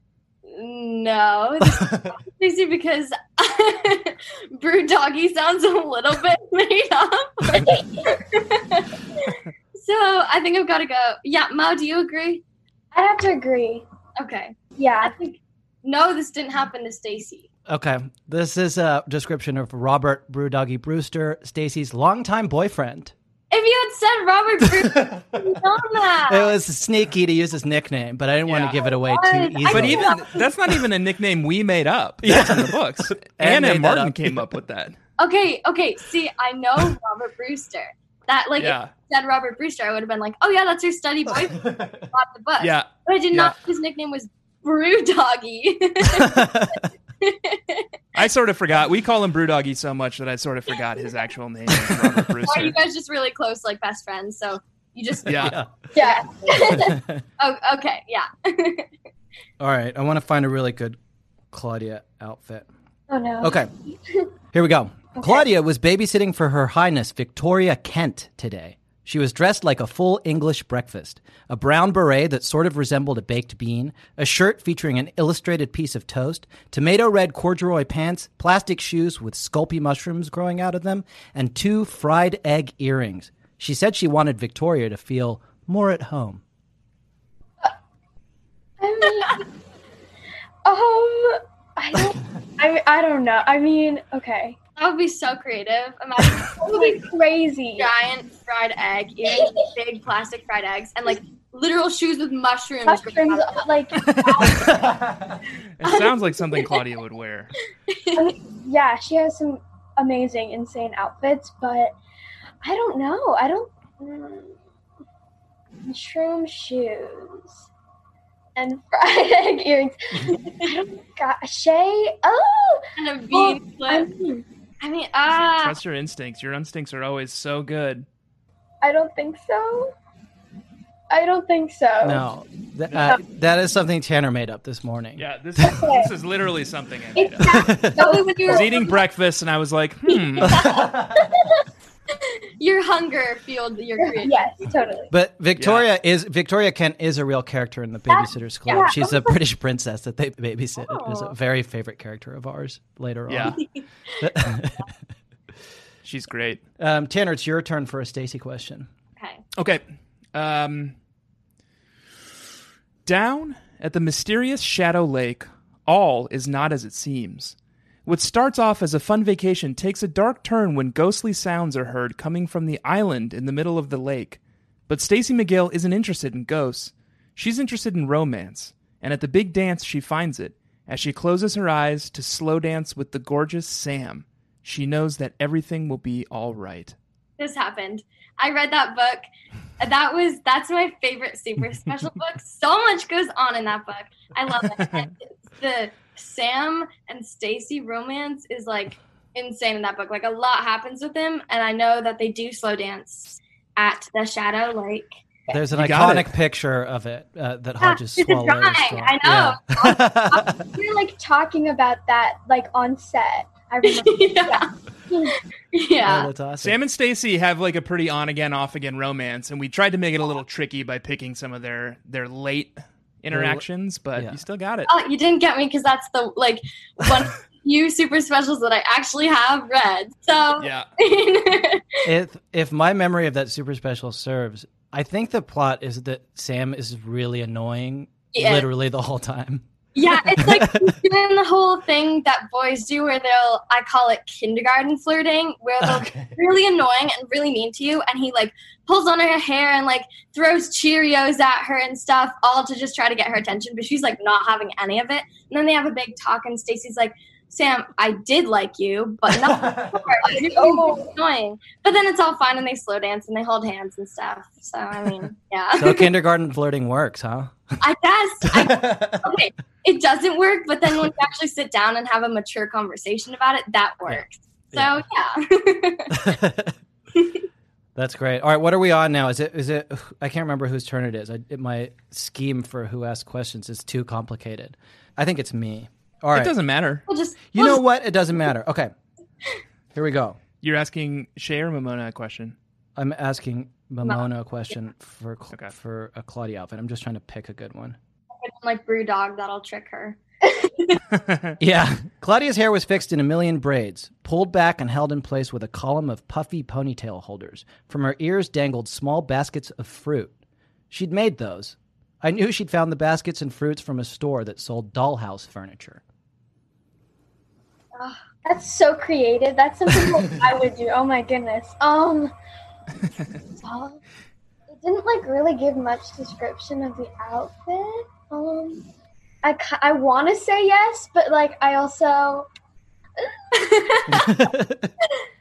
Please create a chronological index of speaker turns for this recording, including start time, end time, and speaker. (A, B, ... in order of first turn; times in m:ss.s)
0:00.4-0:12.4 A
0:07.6-0:08.2 B
0:12.9-0:13.8 B
0:14.2-0:17.5 A
0:14.7-0:15.2 B
0:17.7-0:23.1 C
0:23.5-0:26.6 A
0:26.3-0:30.1 C
0:28.4-0:28.8 D
0:28.9-0:30.5 A
0:29.6-0:35.0 D
0:32.2-0:34.4 C
0:35.2-0:47.8 A
0:38.6-0:38.9 D
0:42.6-0:43.6 D
0:46.1-0:46.8 C
0:48.1-0:52.8 D
0:52.4-0:58.9 A
0:55.2-0:55.6 D
0:55.3-0:55.7 C
0:55.9-0:56.9 B
0:56.7-0:57.2 C
0:59.6-1:01.0 C
1:01.5-1:02.7 C
1:03.1-1:04.3 B
1:03.4-1:03.7 C
1:04.5-1:26.4 C
1:05.2-1:05.4 B
1:28.8-1:29.5 B
1:30.6-1:34.6 B
1:34.8-1:37.1 A
1:36.5-1:37.9 B
1:37.8-1:43.7 A
1:39.2-1:39.7 B
1:42.8-1:44.9 B
1:44.1-1:45.0 C
1:45.8-1:47.5 D
1:47.9-1:48.3 A
1:48.1-1:51.9 B
1:52.6-1:54.5 B
1:55.8-1:57.6 B
1:58.6-2:04.4 B
2:03.0-2:04.1 A
2:04.8-2:05.8 A
2:05.4-2:08.0 D
2:08.8-2:09.9 B
2:11.1-2:12.2 B
2:12.0-2:15.2 C
2:12.9-2:13.2 D
2:15.2-2:17.8 D
2:15.6-2:16.1 B
2:17.2-2:19.0 B
2:17.5-2:18.0 C
2:18.0-2:18.9 A
2:18.4-2:20.7 D
2:20.4-2:20.9 A
2:20.5-2:21.2 C
2:21.2-2:21.6 B
2:22.6-2:24.4 A
2:24.0-2:25.1 B
2:25.1-2:33.6 C
2:25.6-2:25.9 D
2:28.1-2:29.3 B
2:28.7-2:28.9 A
2:30.8-2:31.3 A
2:33.3-2:33.6 D
2:34.2-2:34.9 C
2:36.0-2:36.6 D
2:36.8-2:38.9 C
2:39.2-2:39.4 A
2:39.6-2:39.8 D
2:40.3-2:40.9 D
2:43.0-2:47.5 D
2:48.0-3:07.0 D
3:07.4-3:09.2 A
3:09.8-3:25.2 A
3:14.8-3:15.0 D
3:25.5-3:30.6 C
3:25.7-3:26.3 D
3:27.8-3:30.6 A
3:30.7-3:35.3 B
3:33.8-3:34.7 A
3:35.2-3:36.3 A
3:36.0-3:36.8 C
3:36.6-3:44.9 D
3:43.3-3:44.4 C
3:44.8-3:52.1 A
3:50.6-3:50.9 D
3:52.0-3:59.6 C
3:58.3-3:58.7 A
3:59.9-4:26.1 A
4:00.2-4:00.9 C
4:05.8-4:06.3 C
4:19.4-4:19.9 C
4:20.2-4:21.1 B
4:25.8-4:27.6 C
4:27.8-4:36.4 A
4:28.5-4:29.2 C
4:34.7-4:35.0 C
4:36.1-4:36.8 C
4:38.0-4:46.5 C
4:46.3-4:47.0 D
4:47.1-4:47.8 A
4:47.5-4:48.9 C
4:49.9-4:50.4 C
4:50.6-4:52.6 D
4:53.0-4:58.0 C
4:58.4-5:01.0 A
5:01.1-5:01.6 D
5:01.6-5:10.3 C
5:10.9-5:16.0 C
5:18.4-5:22.3 B
5:23.6-5:24.0 B
5:24.7-5:28.8 B
5:29.4-5:32.5 B
5:33.5-5:34.3 A
5:34.1-5:34.9 C